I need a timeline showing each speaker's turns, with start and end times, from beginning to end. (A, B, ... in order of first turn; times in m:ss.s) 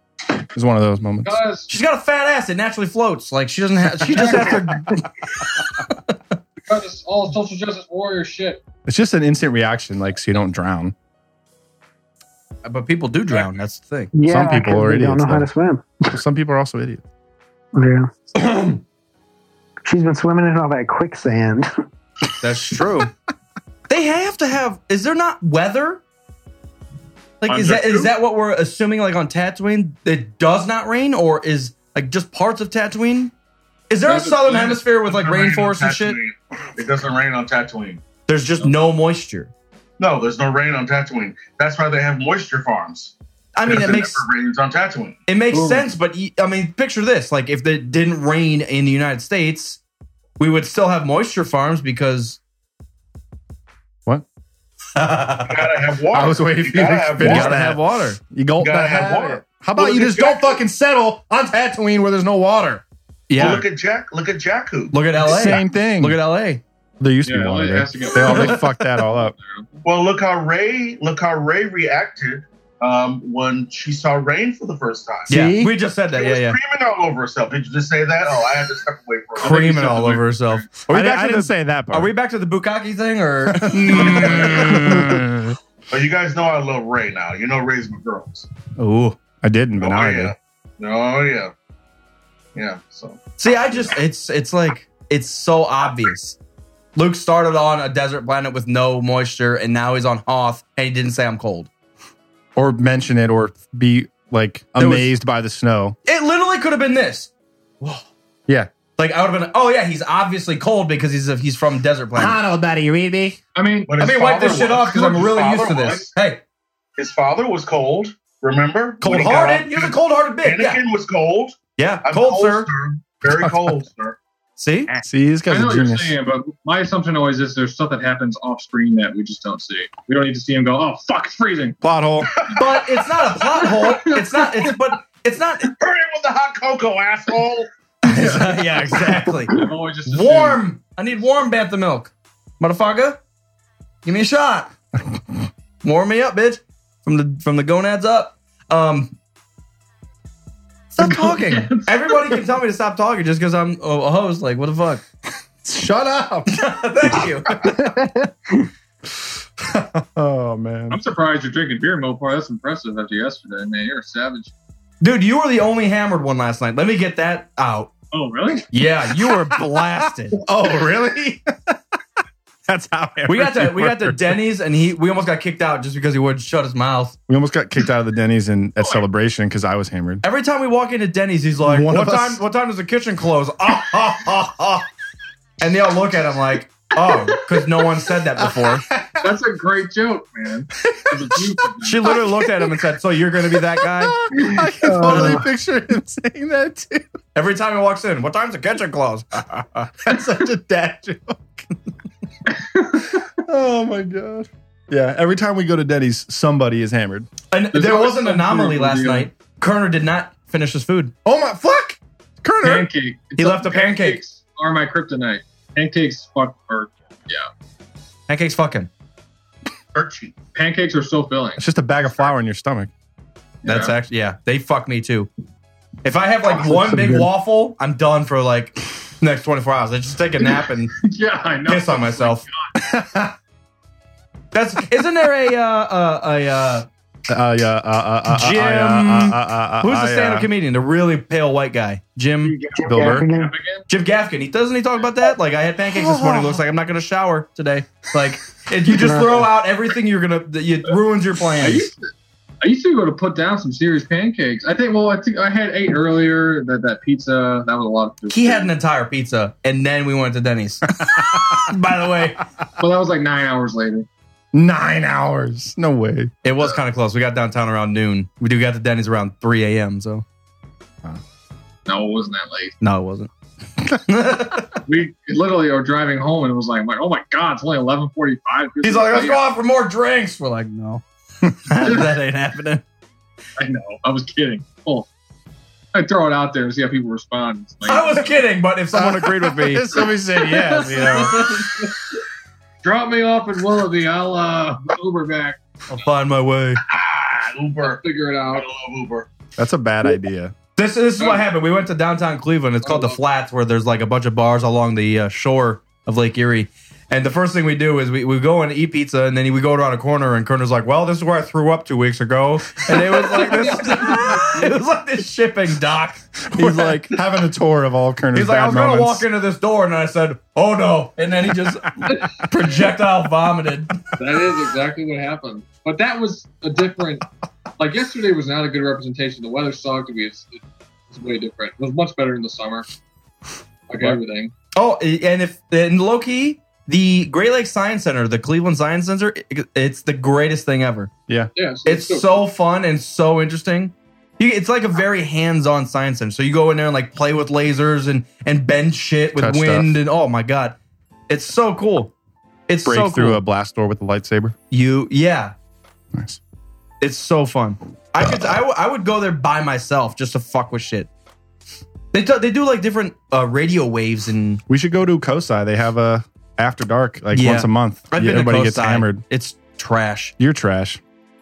0:00.5-0:01.4 A
0:01.2-0:01.7 B
0:01.7-0:05.0 C
0:04.2-0:04.5 A
0:06.6-0:08.6 B
0:08.8-0:10.9 A
0:12.6-0:14.1 C
0:14.1-0:15.9 D
0:14.3-0:15.5 A
0:16.1-0:17.0 A
0:17.7-0:18.1 D
0:19.8-0:21.7 D
0:22.4-0:23.1 C
0:23.9-0:26.0 C
0:27.4-0:33.3 C
0:27.4-0:28.1 E
0:33.9-0:36.2 C
0:34.0-0:34.8 B
0:34.6-0:38.0 E
0:38.3-0:39.5 C
0:40.0-0:45.2 E
0:43.5-0:44.2 C
0:45.3-0:49.8 C
0:45.5-0:45.8 B
0:50.4-0:52.4 C
0:55.0-0:55.5 C
0:55.4-0:57.6 E
0:56.1-1:02.8 A
0:57.2-0:58.2 C
0:58.6-1:00.6 E
1:03.3-1:03.6 C
1:03.4-1:05.0 E
1:04.9-1:06.6 C
1:05.2-1:06.2 A
1:07.0-1:09.3 A
1:07.2-1:09.8 B
1:08.2-1:08.6 C
1:09.8-1:15.3 E
1:15.3-1:15.7 A
1:15.3-1:16.6 C
1:16.1-1:19.9 E
1:19.4-1:20.7 B
1:19.4-1:25.0 C
1:20.9-1:22.1 A
1:23.5-1:25.6 A
1:23.9-1:24.8 E
1:25.9-1:28.5 E
1:28.8-1:29.2 C
1:29.4-1:30.3 A
1:29.8-1:31.5 E
1:32.5-1:33.3 E
1:33.4-1:36.4 C
1:36.9-1:41.7 C
1:42.5-1:46.0 A
1:44.8-1:45.1 C
1:46.0-1:48.1 C
1:49.0-1:52.4 C
1:52.1-1:53.4 A
1:53.5-1:56.0 B
1:53.9-1:56.1 E
1:54.0-1:56.4 C
1:57.0-2:04.2 E
1:59.0-2:00.8 C
2:01.8-2:02.7 C
2:03.3-2:03.8 A
2:04.6-2:04.9 C
2:05.0-2:06.2 A
2:05.5-2:11.8 B
2:11.8-2:12.3 A
2:12.5-2:15.7 C
2:13.6-2:14.8 B
2:15.7-2:17.7 E
2:18.0-2:23.2 C
2:18.1-2:18.5 B
2:19.5-2:20.6 B
2:24.0-2:24.7 C
2:25.8-2:29.1 C
2:30.9-2:35.0 C
2:31.0-2:32.4 B
2:35.6-2:36.5 A
2:36.5-2:37.8 C
2:39.6-2:41.0 A
2:40.9-2:44.5 B
2:45.0-2:47.9 C
2:48.1-2:48.7 B
2:48.7-2:50.4 C
2:50.4-2:51.8 A
2:52.7-2:54.4 A
2:53.2-2:57.2 C
2:57.3-3:00.2 A
3:00.2-3:04.8 C
3:01.6-3:02.4 A
3:05.6-3:08.8 C
3:08.4-3:09.3 A
3:09.2-3:12.3 B
3:10.9-3:11.5 A
3:11.8-3:14.2 C
3:13.8-3:17.1 A
3:14.4-3:15.4 D
3:17.3-3:19.9 C
3:20.0-3:21.6 A
3:22.6-3:23.2 B
3:23.4-3:27.3 A
3:27.5-3:31.1 C
3:27.7-3:29.3 B
3:31.2-3:32.9 A
3:32.6-3:37.5 B
3:33.4-3:34.2 C
3:38.3-3:38.9 C
3:39.9-3:40.3 E
3:40.5-3:41.6 B
3:41.6-3:42.9 A
3:43.6-3:43.9 B
3:43.6-3:45.3 C
3:46.0-3:50.9 C
3:46.6-3:47.2 A
3:51.0-3:52.7 B
3:51.7-3:52.4 C
3:52.8-3:53.3 A
3:54.5-3:56.9 C
3:57.3-4:00.5 A
3:58.3-4:02.6 C
4:02.4-4:03.9 B
4:02.7-4:03.5 D
4:02.8-4:03.3 A
4:03.9-4:11.9 C
4:05.9-4:06.6 A
4:09.0-4:09.5 D
4:11.6-4:18.7 B
4:18.3-4:22.4 C
4:21.0-4:21.7 A
4:22.8-4:24.1 B
4:24.5-4:26.3 A
4:26.4-4:30.2 C
4:31.8-4:32.7 B
4:32.8-4:33.3 C
4:33.9-4:34.8 C
4:34.8-4:39.4 B
4:38.8-4:41.0 C
4:41.6-4:42.8 C
4:41.8-4:42.1 B
4:43.6-4:45.1 B
4:45.9-4:48.3 B
4:47.8-4:49.9 C
4:48.9-4:51.8 A
4:50.4-4:52.1 B
4:52.8-4:55.6 B
4:55.9-4:56.8 C
4:56.8-4:59.3 E
4:57.8-4:58.7 B
4:59.6-5:00.5 A
5:00.8-5:17.2 C
5:02.8-5:03.2 B
5:13.1-5:14.7 B
5:16.5-5:19.2 A
5:18.3-5:24.0 C
5:24.2-5:27.3 B
5:27.8-5:32.9 B
5:33.9-5:34.5 B
5:34.7-5:41.1 C
5:41.5-5:42.5 B
5:41.8-5:50.8 C
5:49.4-5:50.0 A
5:51.3-5:52.1 C
5:52.7-5:53.4 C
5:52.8-5:54.5 A
5:54.7-5:55.5 C
5:56.1-5:56.4 A
5:57.0-6:01.1 C
6:02.1-6:04.6 C
6:04.7-6:09.2 A
6:07.3-6:10.3 C
6:10.4-6:11.0 A